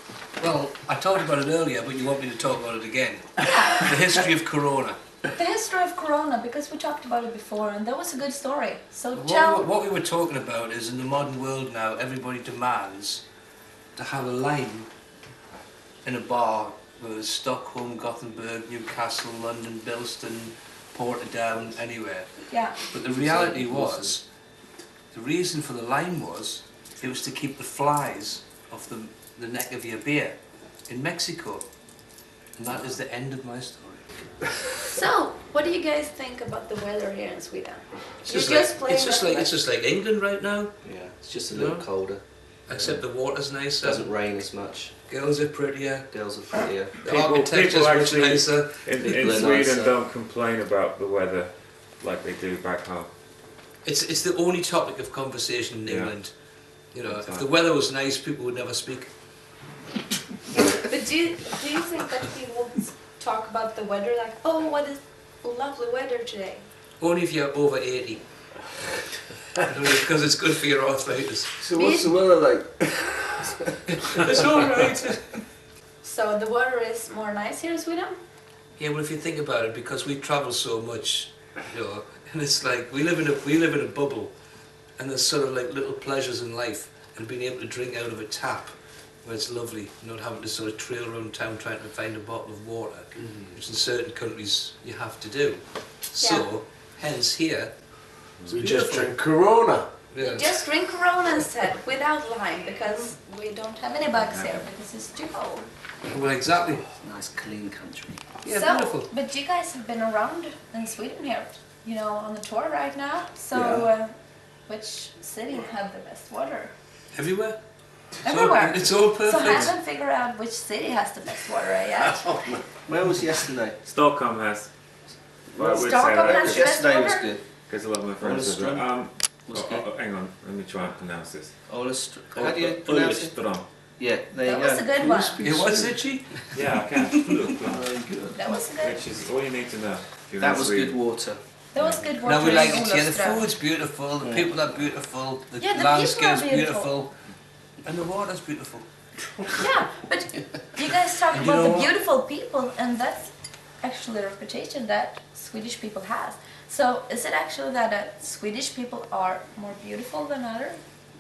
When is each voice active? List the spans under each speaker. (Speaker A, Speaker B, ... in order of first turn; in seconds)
Speaker A: 0.4-5.0, 9.1-13.2, 14.0-14.9, 16.0-22.3, 22.9-24.2, 25.1-30.4, 30.9-31.6, 32.6-34.1, 38.2-40.8, 41.5-41.9, 42.7-44.1, 45.1-48.8, 53.9-56.3, 56.9-59.1, 67.0-68.2, 69.6-71.5, 73.9-75.3, 78.8-84.3, 85.0-97.7, 98.5-99.1, 100.1-100.5, 106.1-106.9, 108.4-109.1, 117.1-117.6, 118.2-119.8, 135.4-137.6, 142.2-147.1, 147.8-148.9, 151.3-151.9
Speaker B: 5.3-9.7, 22.5-22.8, 34.8-39.6, 60.6-66.7, 71.8-72.2, 76.0-78.2, 96.2-96.5, 100.2-105.7, 108.5-114.1, 114.7-116.7, 118.2-122.6, 125.7-127.3, 134.4-135.4, 138.3-139.0, 141.7-143.4, 145.6-146.9, 149.6-160.8
Speaker C: 23.2-24.1, 40.8-43.0, 43.7-44.9, 46.1-47.1, 49.0-50.0, 106.9-108.4, 122.9-123.8, 125.5-127.5, 128.2-128.9, 129.5-129.9, 131.7-133.4, 134.0-134.9, 140.4-141.4, 144.2-144.6
Speaker D: 47.0-53.1, 55.9-56.1, 57.0-57.5, 104.3-104.6, 123.8-124.7, 125.6-126.7, 127.6-131.6, 132.3-133.7, 136.5-137.9, 138.8-140.9, 141.8-142.3
Speaker E: 71.6-74.4, 98.5-99.9, 135.0-136.0, 137.7-138.4